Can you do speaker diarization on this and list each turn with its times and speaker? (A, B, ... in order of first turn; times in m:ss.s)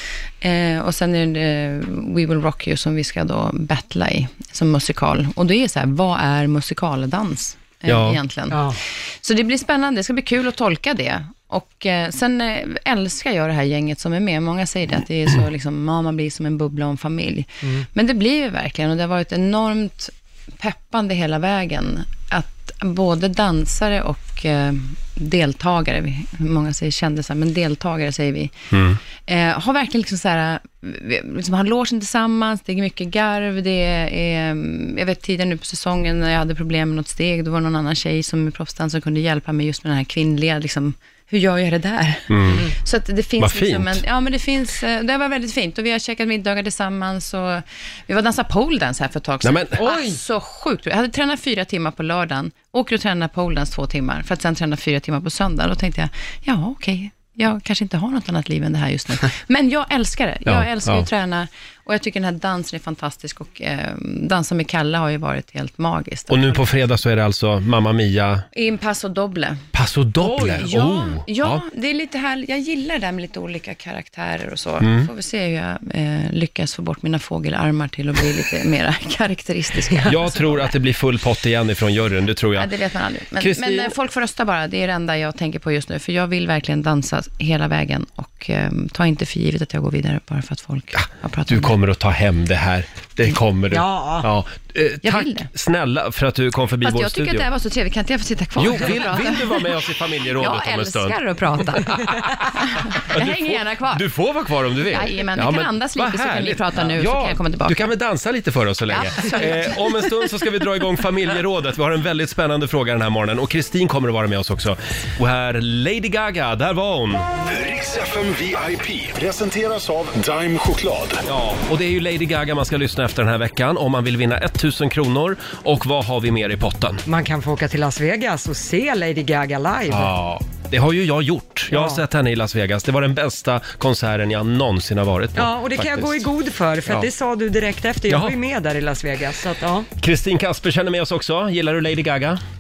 0:00.4-0:28.5 A
0:07.9-0:08.2 B
0:08.5-0:08.8 C
0:28.7-0:29.0 B
0:29.3-1:06.7 A
0:42.3-0:42.6 B
0:43.4-0:44.0 B
0:49.4-0:49.8 B
0:49.8-0:50.2 C
1:00.5-1:01.0 B
1:06.3-1:08.4 B
1:08.5-1:09.6 A
1:09.7-1:11.6 B
1:10.2-1:20.7 A
1:14.8-1:15.1 B
1:20.0-1:22.7 B
1:22.6-1:31.8 A
1:23.4-1:23.9 B
1:31.0-1:37.4 B
1:33.7-1:34.3 C
1:35.0-1:35.5 A
1:36.8-1:39.7 A
1:38.6-1:41.2 B
1:40.3-1:44.0 A
1:41.9-1:57.3 B
1:44.9-1:47.8 A
1:48.9-1:50.1 A
1:57.4-2:01.2 D
2:01.2-2:07.0 B
2:07.1-2:10.1 C
2:09.9-2:16.2 B
2:11.7-2:12.0 C
2:15.4-2:19.9 C
2:20.0-2:22.4 B